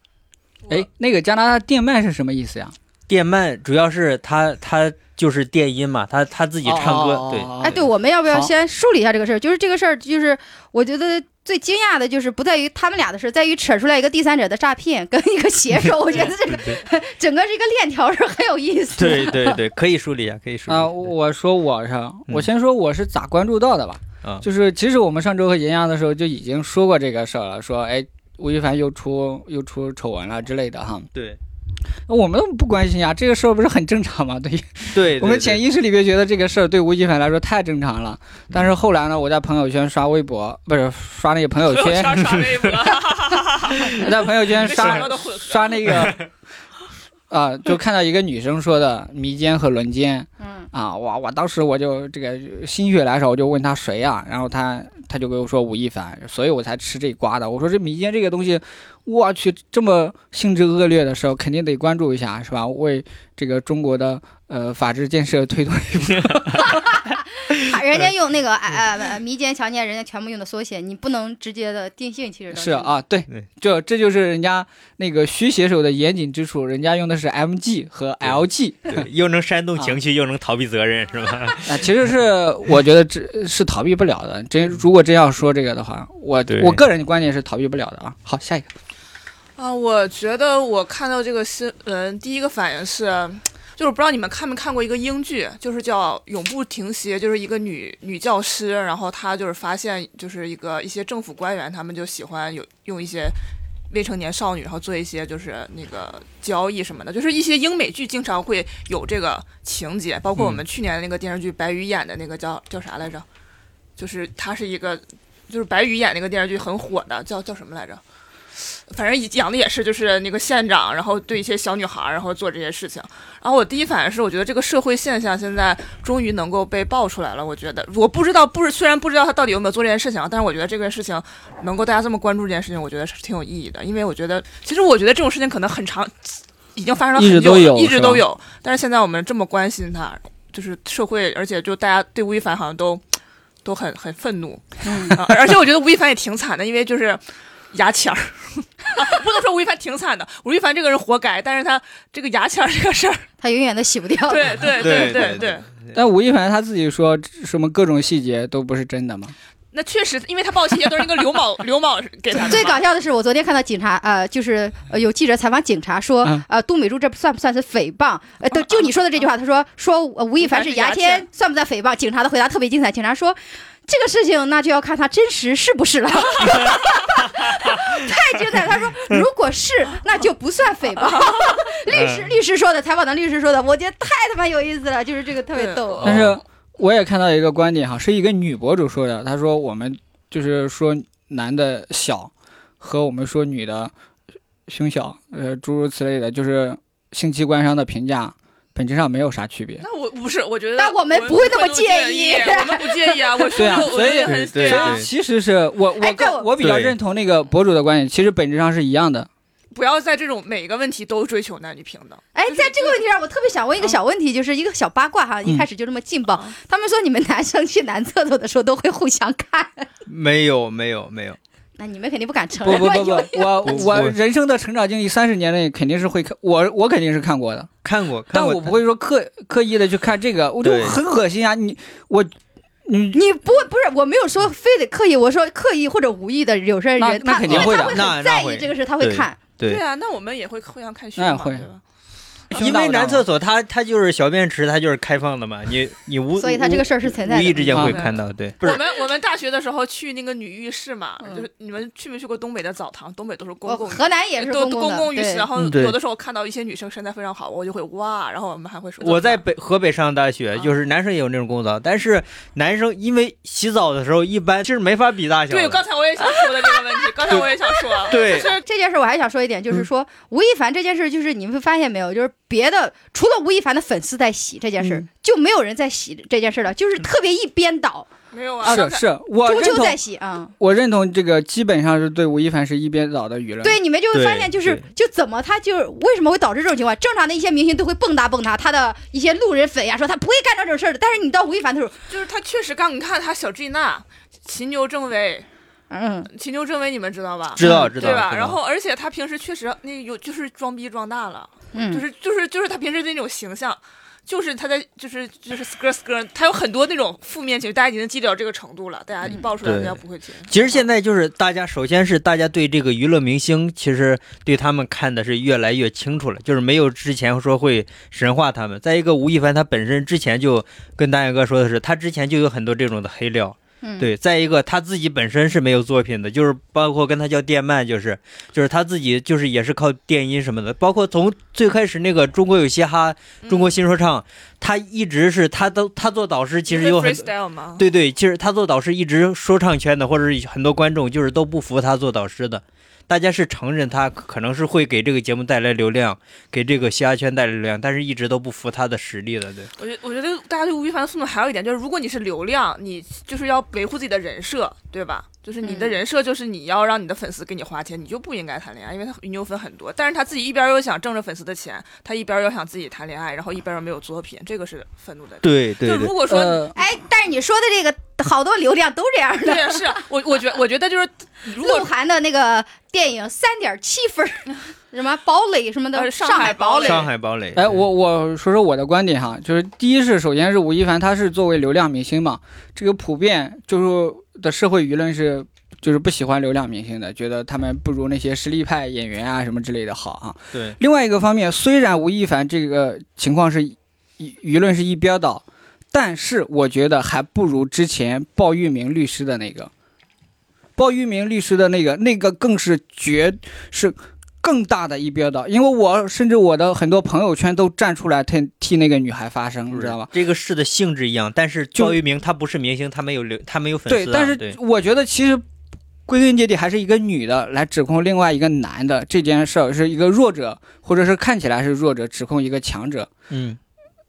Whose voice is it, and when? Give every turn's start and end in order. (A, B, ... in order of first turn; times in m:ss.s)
0:00.7-0:02.7 A
0:03.1-0:07.5 B
0:06.6-0:08.5 A
0:07.6-0:19.6 C
0:19.0-0:21.1 B
0:20.7-0:31.1 A
0:32.1-0:42.4 A
0:34.9-0:35.6 B
0:41.6-0:46.1 D
0:43.9-0:46.2 A
0:47.3-1:06.7 A
0:50.4-0:50.7 C
1:06.3-1:06.7 B
1:06.6-1:12.9 C
1:12.5-1:19.0 A
1:18.9-1:21.8 B
1:21.6-1:28.7 A
1:26.5-1:26.8 B
1:29.6-1:43.4 D
1:43.9-1:53.2 D
1:50.4-1:50.6 B
1:54.0-1:58.0 D
1:58.6-2:23.0 D
2:17.2-2:18.2 A
2:23.6-2:27.2 D
2:24.8-2:25.2 C
2:27.7-2:33.2 D
2:33.4-2:35.2 C
2:34.3-2:35.6 D
2:34.8-2:35.6 B
2:35.9-2:39.3 A
2:39.7-2:42.8 D
2:42.4-3:06.0 C
2:50.4-2:51.2 D
3:01.0-3:01.8 D
3:01.9-3:02.2 B
3:05.5-3:06.2 D
3:06.0-3:06.4 B
3:06.0-3:13.9 A
3:14.7-3:19.8 A
3:19.8-3:25.1 D
3:20.8-3:23.8 C
3:23.5-3:29.3 A
3:24.2-3:25.1 B
3:26.0-3:26.5 C
3:26.6-3:26.9 B
3:29.7-3:33.0 D
3:32.3-3:39.9 C
3:40.0-3:41.4 B
3:41.8-3:43.9 C
3:42.6-3:47.7 A
3:43.6-3:44.1 B
3:47.8-3:48.8 B
3:48.3-3:52.3 A
3:50.6-3:51.0 B
3:52.8-3:53.2 A
3:53.1-3:59.4 C
3:57.0-3:58.0 A
3:57.5-3:59.8 B
3:59.6-4:01.8 D
4:01.2-4:01.6 A
4:02.5-4:03.3 A
4:02.5-4:08.8 B
4:06.4-4:08.0 C
4:07.6-4:08.0 A
4:07.7-4:19.4 D
4:13.6-4:15.5 C
4:15.6-4:16.0 B
4:19.0-4:25.8 B
4:25.5-4:28.6 D
4:26.6-4:38.1 C
4:28.1-4:28.5 B
4:34.8-4:35.0 A
4:38.3-4:39.1 D
4:38.6-4:40.0 A
4:39.4-4:40.5 C
4:40.6-4:43.8 A
4:43.6-4:52.0 C
4:44.1-4:44.8 B
4:52.1-4:55.4 D
4:55.9-4:56.3 C
4:56.3-5:10.9 D
4:57.5-4:58.6 B
4:57.6-4:58.2 C
5:01.7-5:02.0 C
5:09.6-5:49.7 B
5:23.8-5:24.1 C
5:33.4-5:33.8 D
5:36.7-5:37.8 D
5:49.8-6:06.7 D
5:55.6-5:56.0 C
6:05.4-6:06.1 B
6:06.2-6:06.7 A
6:06.7-6:10.0 C
6:09.4-6:11.9 D
6:11.6-6:17.0 C
6:15.9-6:17.1 D
6:16.8-6:17.8 B
6:17.5-6:39.7 A
6:40.8-6:50.1 A
6:49.7-6:54.6 B
6:53.9-6:55.4 A
6:56.0-7:03.1 A
7:03.3-7:03.6 B